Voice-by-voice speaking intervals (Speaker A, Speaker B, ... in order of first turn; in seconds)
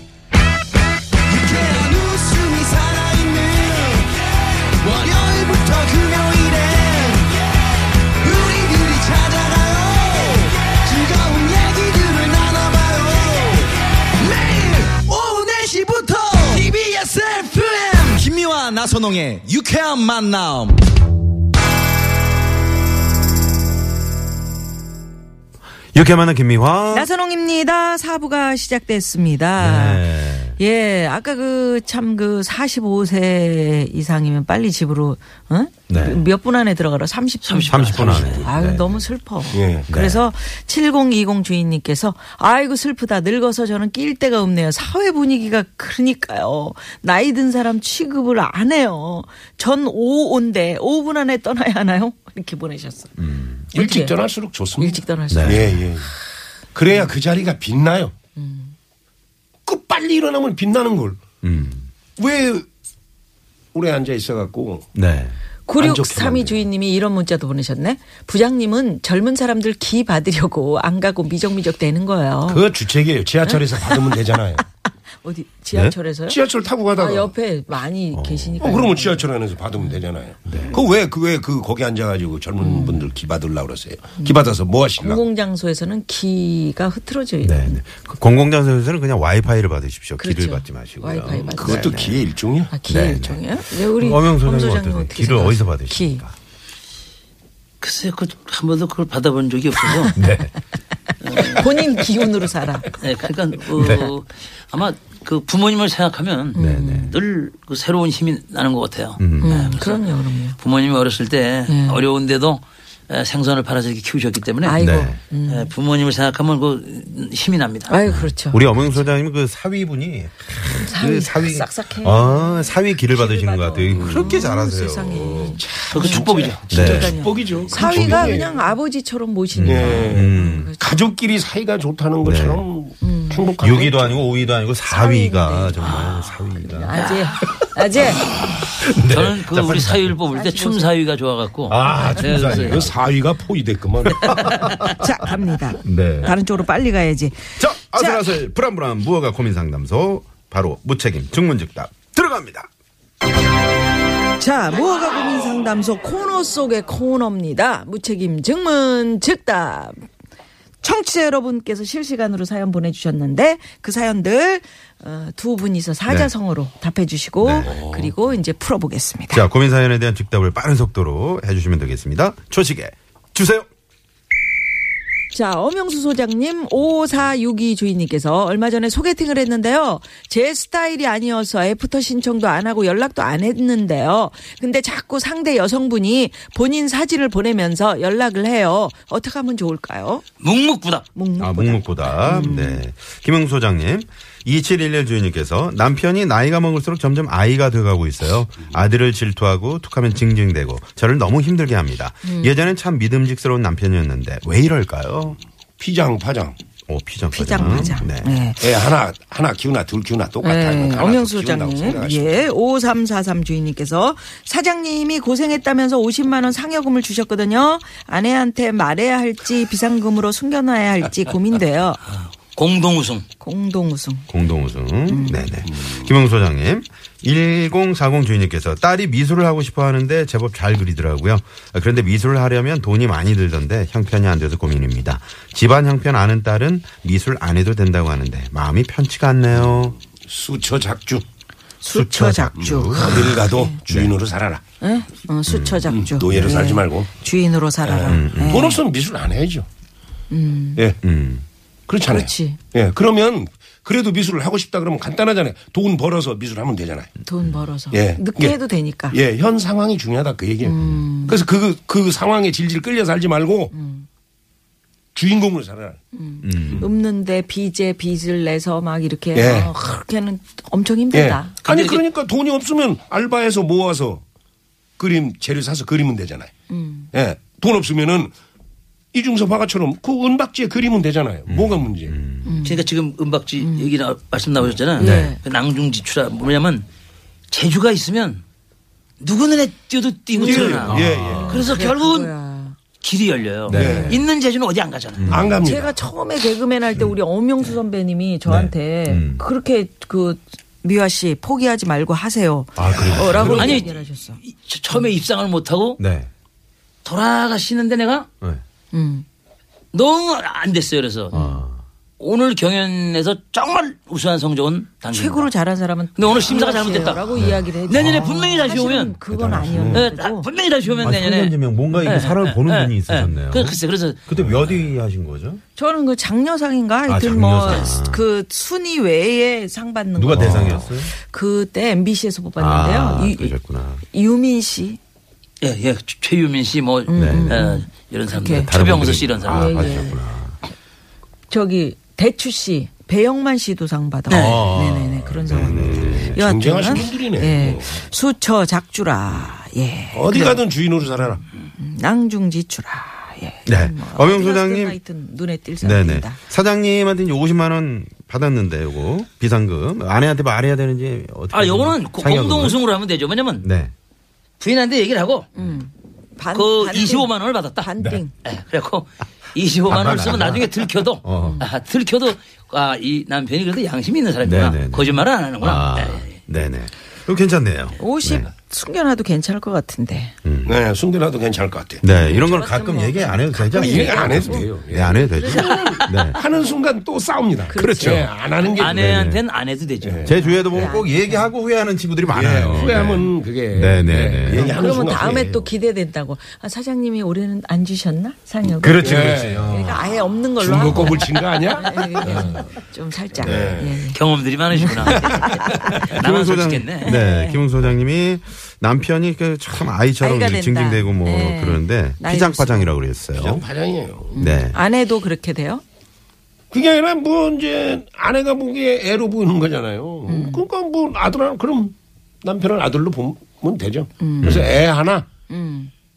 Speaker A: 1.3-4.1, 4.8-7.3, 8.2-20.8
Speaker B: 25.9-27.1, 29.6-30.6, 35.9-36.2, 37.7-39.0, 39.9-40.2, 53.2-53.6, 55.3-55.8, 61.4-61.9, 64.9-65.3, 78.1-78.9, 80.5-80.8, 87.4-92.2, 92.8-96.3, 100.1-100.5, 103.8-104.1, 106.5-107.2, 109.2-109.7, 114.8-115.2, 118.0-125.8, 126.7-128.5, 129.5-130.7, 132.2-132.6, 133.6-137.3, 138.6-140.1, 141.7-142.9, 144.1-145.3, 145.8-146.3, 147.5-152.7, 167.4-168.1, 169.3-173.7, 191.4-205.4, 206.9-208.5, 224.3-239.9, 241.9-244.1, 245.5-246.6, 248.1-248.7, 251.0-251.4, 266.4-266.9, 281.5-282.6, 285.0-285.4, 290.8-291.7, 293.7-294.1, 295.2-295.6, 298.4-299.4, 302.8-303.9, 306.0-306.3, 311.3-311.8, 317.3-318.3, 319.3-320.1, 321.0-325.6, 327.1-328.2, 330.1-331.1, 332.6-334.0, 337.1-337.6, 338.4-340.6, 344.3-346.4, 349.3-349.6, 353.6-355.0, 355.8-362.8, 363.6-363.9, 368.0-368.2, 369.9-371.6, 374.4-378.5, 380.4-380.8, 382.0-386.4, 387.8-388.3, 388.9-389.4, 390.2-394.8, 398.8-400.2, 403.4-403.8, 406.0-413.6, 414.3-414.8, 424.4-424.7
Speaker C: 26.9-54.2, 54.8-55.8, 58.4-58.7, 65.7-72.7, 73.5-74.1, 75.2-76.4, 76.9-79.3, 82.6-83.0, 84.2-87.8, 90.2-92.0, 92.7-96.2, 101.4-102.9, 106.5-107.1, 109.4-110.6, 111.7-112.0, 114.6-115.7, 117.9-119.1, 120.7-130.9, 133.0-133.8, 134.8-138.2, 140.3-141.0, 144.7-148.2, 154.3-160.0, 160.8-169.4, 175.3-190.2, 191.1-192.8, 202.2-202.5, 207.3-208.7, 210.4-222.0, 223.4-224.3, 225.1-225.5, 241.8-243.8, 244.8-248.8, 250.3-250.8, 252.1-252.6, 257.2-259.2, 260.6-261.4, 263.7-264.1, 266.1-271.5, 276.7-277.1, 282.4-282.8, 283.6-283.9, 284.9-285.4, 290.3-292.8, 293.7-294.2, 295.6-304.4, 308.9-309.2, 311.3-311.6, 315.1-321.1, 325.8-335.0, 337.1-338.7, 339.4-340.2, 341.5-356.4, 365.6-368.3, 371.4-371.7, 378.0-380.3, 382.1-385.9, 386.4-386.7, 387.6-388.9, 390.2-391.5, 394.5-404.2, 404.7-405.9, 407.0-407.7, 410.2-412.9, 414.3-415.8, 420.3-420.6, 424.2-424.8, 425.5-425.9
Speaker D: 37.4-38.5, 97.8-100.2, 101.2-101.9, 103.0-114.8, 115.4-117.9, 123.9-124.2, 125.9-126.6, 138.6-142.9, 144.3-144.8, 190.4-191.0, 222.5-223.2, 271.6-272.0, 282.6-286.9, 287.5-288.4, 289.2-292.3, 293.0-295.3, 302.9-306.0, 307.0-308.3, 309.9-311.4, 312.2-315.5, 316.1-319.2, 319.9-324.2, 335.6-340.1, 344.3-344.6, 361.5-363.7, 364.6-365.5, 366.5-367.9, 368.4-376.4, 388.8-390.3, 404.1-407.1
Speaker E: 39.5-39.9, 53.7-56.1, 56.7-58.1, 59.6-61.2, 62.2-62.6, 63.7-64.9, 65.8-66.7, 72.5-74.6, 76.3-77.3, 78.6-85.2, 91.3-92.7, 125.4-128.6, 129.6-134.2, 142.7-144.4, 205.8-206.6, 208.6-212.5, 240.2-241.2, 242.6-244.6, 245.9-247.1, 247.8-249.7, 251.9-257.1, 257.9-258.6, 259.1-263.7, 265.1-266.0, 269.3-269.7, 271.1-274.2, 275.0-276.5, 277.1-278.3, 279.1-282.2, 290.4-291.6, 293.7-294.2, 295.3-296.0, 303.1-303.6, 345.7-348.1, 350.1-351.4, 380.6-382.3, 383.7-389.0, 390.0-390.4, 392.3-395.7, 398.8-399.6, 400.6-402.7, 403.4-404.0, 413.4-414.4, 416.7-425.3